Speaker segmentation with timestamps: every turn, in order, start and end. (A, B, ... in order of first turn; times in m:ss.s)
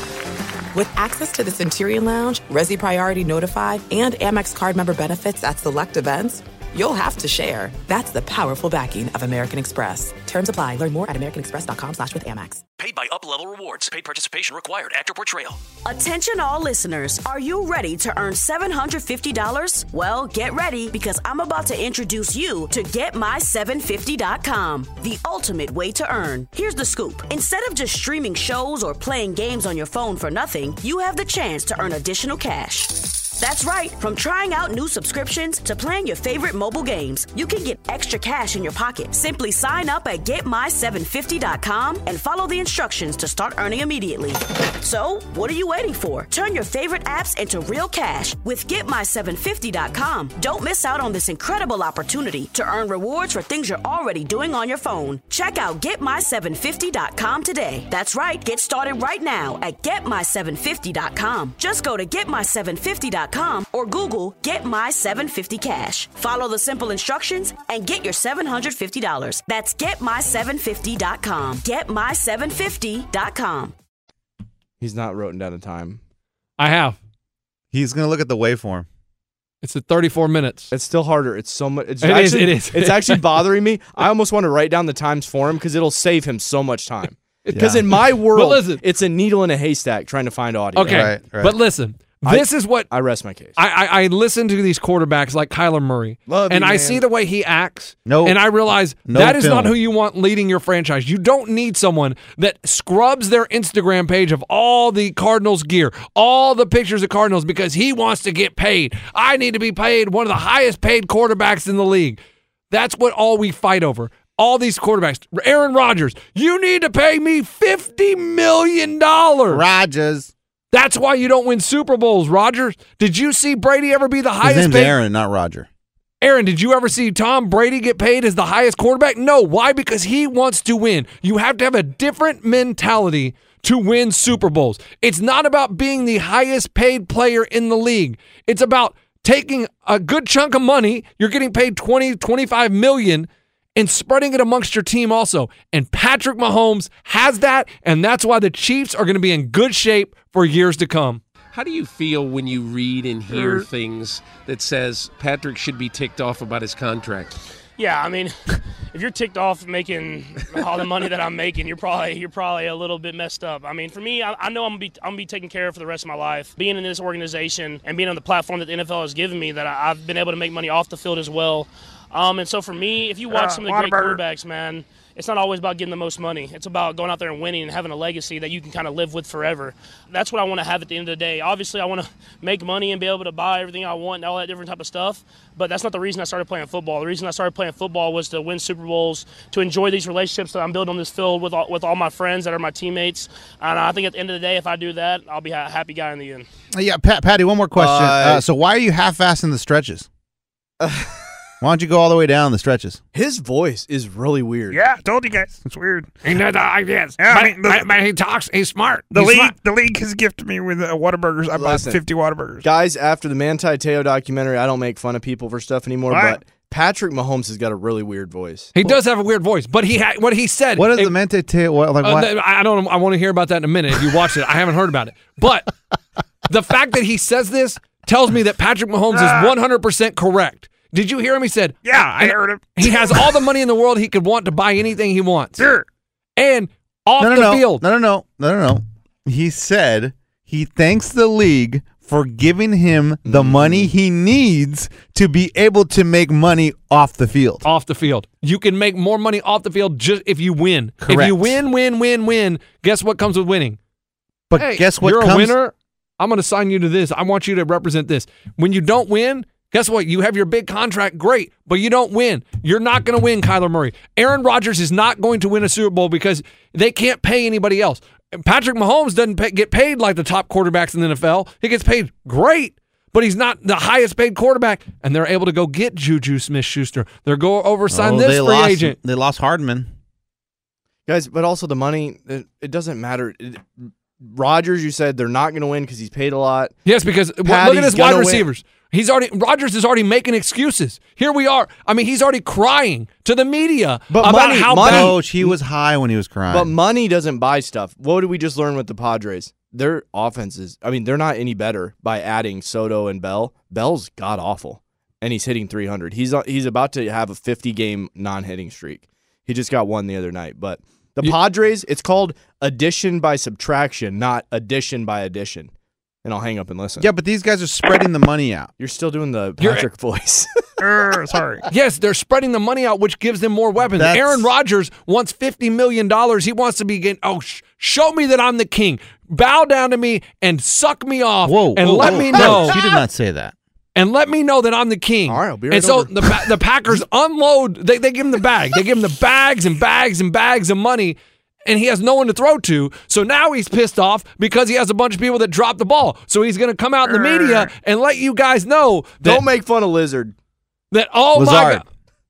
0:00.7-0:12.6 A
0:12.8-0:15.6 B
0:15.8-1:13.7 C
1:14.8-1:16.0 D
1:16.6-1:17.0 E
1:17.7-1:18.9 F
1:19.6-1:20.7 E
1:20.7-1:31.1 D
1:22.0-1:23.2 E
1:27.5-1:27.7 E
1:27.5-1:27.8 F
1:28.3-1:28.8 E
1:30.8-1:32.9 E
1:30.9-1:31.6 F
1:32.2-1:33.6 D
1:33.6-1:52.2 E
1:36.3-1:37.0 D
1:38.1-1:38.4 F
1:39.0-1:39.8 F
1:52.7-1:59.6 E
1:59.5-2:00.3 F
2:00.7-2:05.0 E
2:04.4-2:05.7 F
2:06.2-2:31.2 E
2:31.5-2:37.4 G
2:37.8-2:38.4 H
2:38.9-3:16.5 H
2:53.3-2:54.2 I
3:16.7-3:20.1 F
3:17.8-3:18.4 D
3:20.8-3:21.1 D
3:21.6-3:23.0 F
3:23.1-3:24.8 D
3:24.7-3:26.1 I
3:26.2-3:29.6 E
3:27.2-3:28.0 I
3:29.1-3:32.7 I
3:31.5-3:32.0 D
3:32.6-3:38.8 D
3:36.1-3:36.4 I
3:38.8-3:41.1 E
3:40.8-3:42.3 F
3:42.0-3:45.7 E
3:46.5-3:55.7 E
3:49.1-3:49.6 I
3:51.8-3:53.4 I
3:55.6-3:55.9 I
3:56.4-3:57.8 E
3:57.2-4:07.7 F
4:03.2-4:03.9 D
4:07.6-4:13.8 E
4:11.0-4:11.6 F
4:14.5-4:15.6 F
4:14.6-4:39.0 E
4:37.9-4:39.9 F
4:41.1-4:46.8 D
4:46.9-4:55.2 E
4:47.4-4:48.5 D
4:54.1-4:55.6 D
4:54.8-4:56.7 F
4:56.5-5:15.7 D
5:16.2-5:17.1 D
5:17.0-5:18.7 F
5:18.8-5:20.5 D
5:19.6-5:19.9 E
5:20.8-5:21.6 I
5:21.7-5:32.8 E
5:24.0-5:24.5 F
5:31.4-5:33.6 F
5:34.0-5:49.4 E
5:35.3-5:36.1 D
5:47.3-5:47.6 I
5:49.2-5:50.3 D
5:50.9-5:51.8 E
5:51.4-5:51.8 F